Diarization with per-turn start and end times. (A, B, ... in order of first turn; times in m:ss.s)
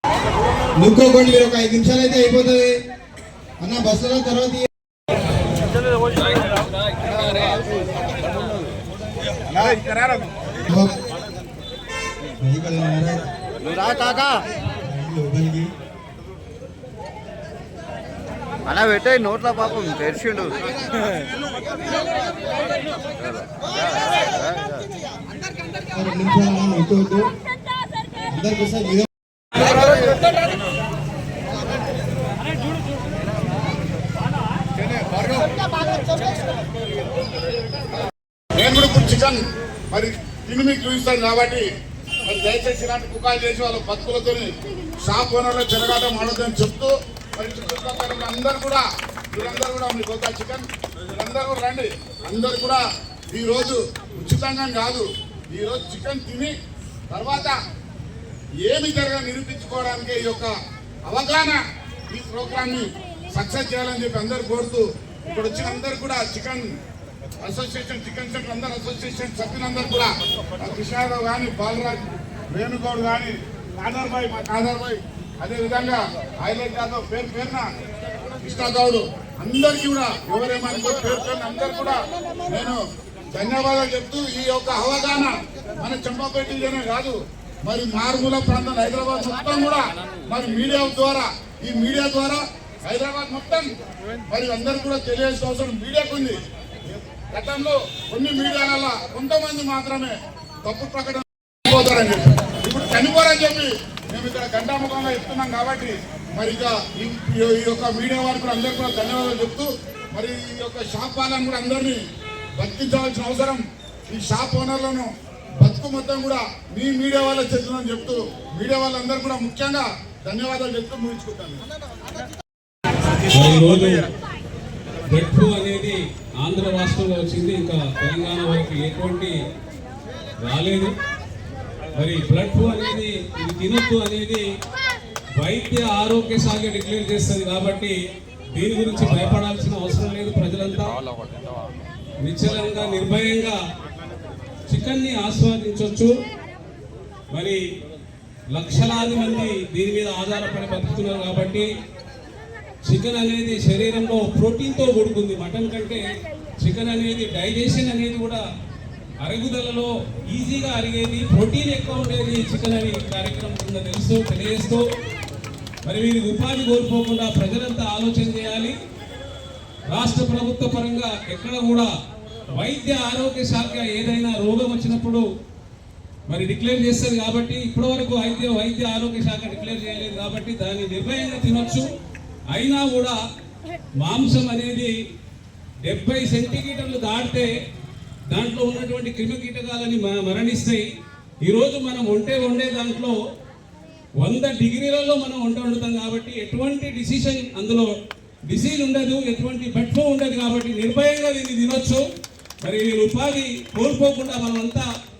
0:00.8-0:02.8 A
0:03.6-0:04.7 A
0:06.1-0:07.6 B
0:09.5-0:10.3 C
0:10.7-0:11.0 A
0:12.4-0:13.3 A
0:13.7-0:14.3 D
0:14.8-0:15.7 A
0:18.7-0:20.6 D
0:23.2-0:23.5 D
0:24.4-0:24.7 D
0:25.9-0:27.3 A
0:28.3-0:29.1 A
0:35.0-0:35.5 C
0:38.6-0:41.7 C
0:42.3-0:56.5 C
0:57.1-0:57.6 C
0:58.7-1:00.5 C
1:01.1-1:01.6 C
1:02.1-1:06.7 C
1:07.4-1:17.7 C
1:18.4-1:22.8 C
1:23.3-1:33.7 C
1:34.3-1:40.1 C
1:40.6-1:52.0 C
1:52.6-1:55.1 C
1:55.6-2:01.6 C
2:03.3-2:04.0 B
2:05.1-2:09.4 B
2:10.4-2:10.9 B
2:11.9-2:14.4 B
2:15.4-2:18.0 B
2:18.5-2:20.9 B
2:22.2-2:23.6 B
2:24.7-2:26.2 B
2:27.3-2:27.6 B
2:28.5-2:31.7 B
2:32.8-2:36.0 B
2:36.6-2:38.4 B
2:39.2-2:44.9 B
2:45.8-2:48.8 B
2:49.9-2:51.9 B
2:52.5-2:55.3 B
2:56.3-3:01.9 B
3:02.5-3:03.2 B
3:04.0-3:04.9 B
3:05.8-3:07.5 B
3:08.3-3:10.9 B
3:11.4-3:13.2 B
3:14.2-3:17.9 B
3:18.5-3:22.0 B
3:22.6-3:24.9 B